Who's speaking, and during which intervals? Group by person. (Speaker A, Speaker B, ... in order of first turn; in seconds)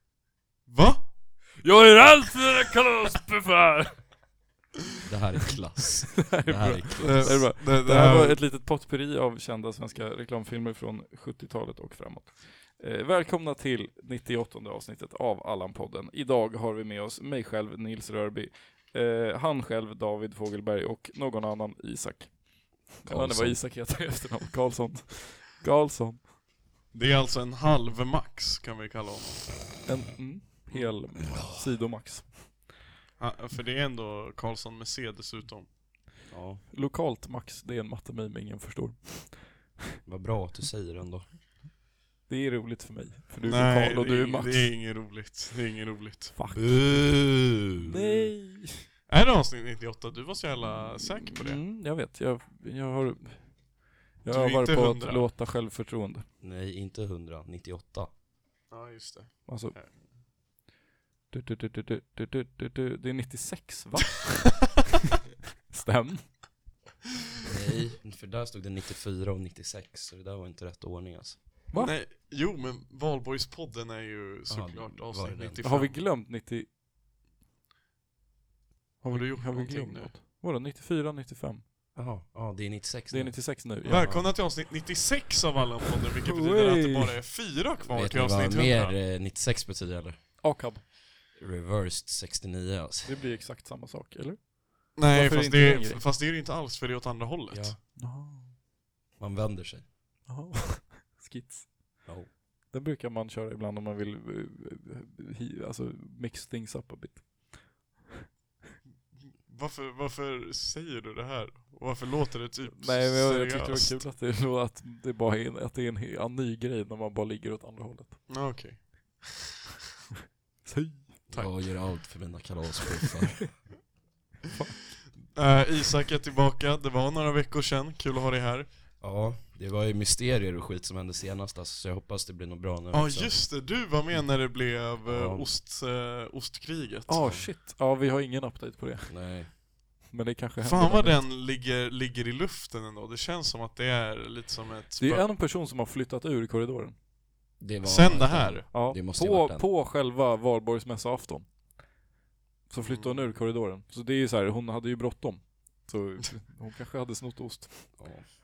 Speaker A: 0.7-1.0, 7.0-8.4, 26.9-29.8, 33.2-35.7, 43.4-46.3, 49.1-51.6, 54.3-55.2, 58.7-59.9, 71.7-76.0, 79.1-80.1, 83.8-88.9, 95.0-97.7, 109.4-114.0, 118.3-119.5, 125.3-128.7, 132.9-137.2, 140.6-145.3, 147.8-148.7, 152.8-153.3
Speaker B: 1.6-4.0, 6.2-22.3, 22.9-26.3, 29.9-32.6, 36.7-39.7, 42.3-44.7, 46.4-47.0, 47.8-48.8, 50.6-53.4, 54.2-56.2, 59.5-59.7, 61.3-64.8, 65.7-66.4, 75.6-76.7, 79.0-81.6, 83.1-84.2, 86.2-87.2, 90.4-90.9, 93.0-96.0, 98.0-98.5, 100.3-102.1, 102.7-107.9, 112.7-118.2, 120.6-121.2, 137.1-139.5, 140.1-141.2, 145.0-146.9, 148.7-151.5, 152.7-158.2
Speaker C: 5.0-7.3, 23.0-23.6, 31.3-31.6, 36.3-36.6, 40.0-41.3, 46.5-48.3, 56.4-58.1, 67.4-71.4, 74.5-75.7, 82.0-84.3, 87.8-90.2, 91.4-93.1, 97.5-97.8, 99.2-99.9, 102.0-102.3, 121.3-123.6, 129.0-133.4, 135.1-135.5, 137.2-137.5, 139.1-139.5, 147.6-149.7, 158.0-158.3